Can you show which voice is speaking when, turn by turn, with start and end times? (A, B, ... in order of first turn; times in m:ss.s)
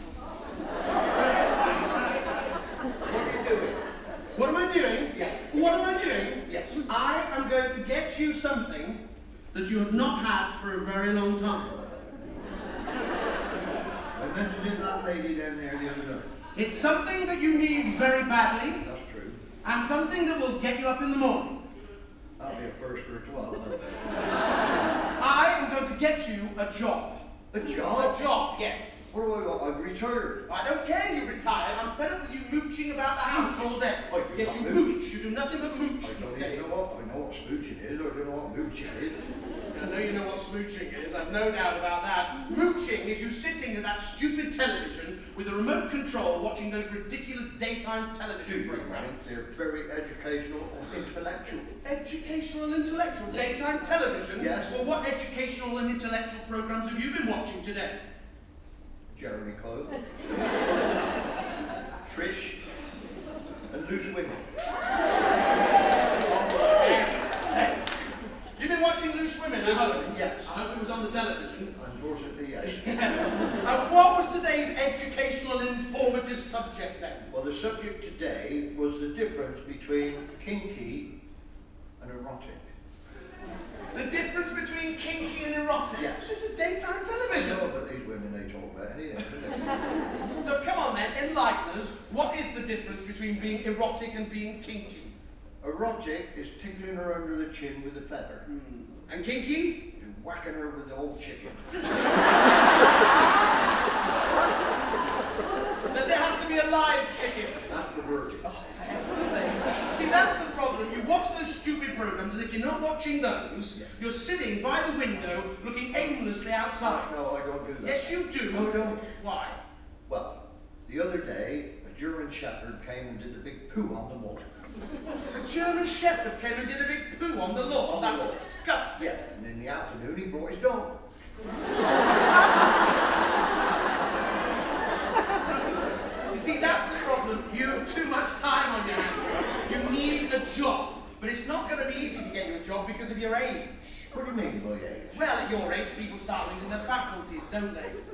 0:03.1-0:03.6 A
0:03.1-0:03.7 B
0:04.3-0:09.0 B
0:05.1-0:05.5 A
0:06.4-0:06.8 A
0:09.5-0:11.8 B
0:14.1-0:16.3 A
0:16.5-0:18.8 B
0:18.8-0:19.4 A
0:19.6-0:21.6 B
0:22.4-0:24.2 A
0:25.2-0:27.2 B
0:27.5-0:28.2 A
0:27.7-0:29.2 B
0:29.1-0:30.4 A
0:30.5-0:36.7 B
0:34.1-0:35.0 A
0:36.0-0:39.2 A
0:39.7-0:49.3 B
0:48.4-0:51.7 A
0:51.8-0:58.0 B
0:54.3-0:54.8 A
0:59.1-1:00.0 A
1:02.0-1:02.6 A
1:03.7-1:04.6 A
1:06.2-1:07.9 B
1:08.6-1:11.7 B
1:10.1-1:10.5 A
1:11.7-1:13.3 A
1:12.6-1:17.3 B
1:17.3-1:21.1 A
1:22.0-1:22.7 A
1:23.9-1:27.7 B
1:25.9-1:26.3 A
1:27.3-1:29.7 A
1:30.4-1:35.1 B
1:35.6-1:38.4 A
1:38.4-1:39.8 B
1:39.9-1:41.8 A
1:45.9-1:47.7 B
1:47.7-1:48.4 A
1:48.4-1:57.3 B
1:55.9-1:56.2 A
1:56.8-1:59.1 A
1:57.8-1:59.6 B
2:00.1-2:04.4 A
2:05.3-2:09.1 B
2:07.8-2:08.4 A
2:09.0-2:11.0 A
2:16.3-2:24.1 B
2:24.1-2:25.2 A
2:25.1-2:28.0 B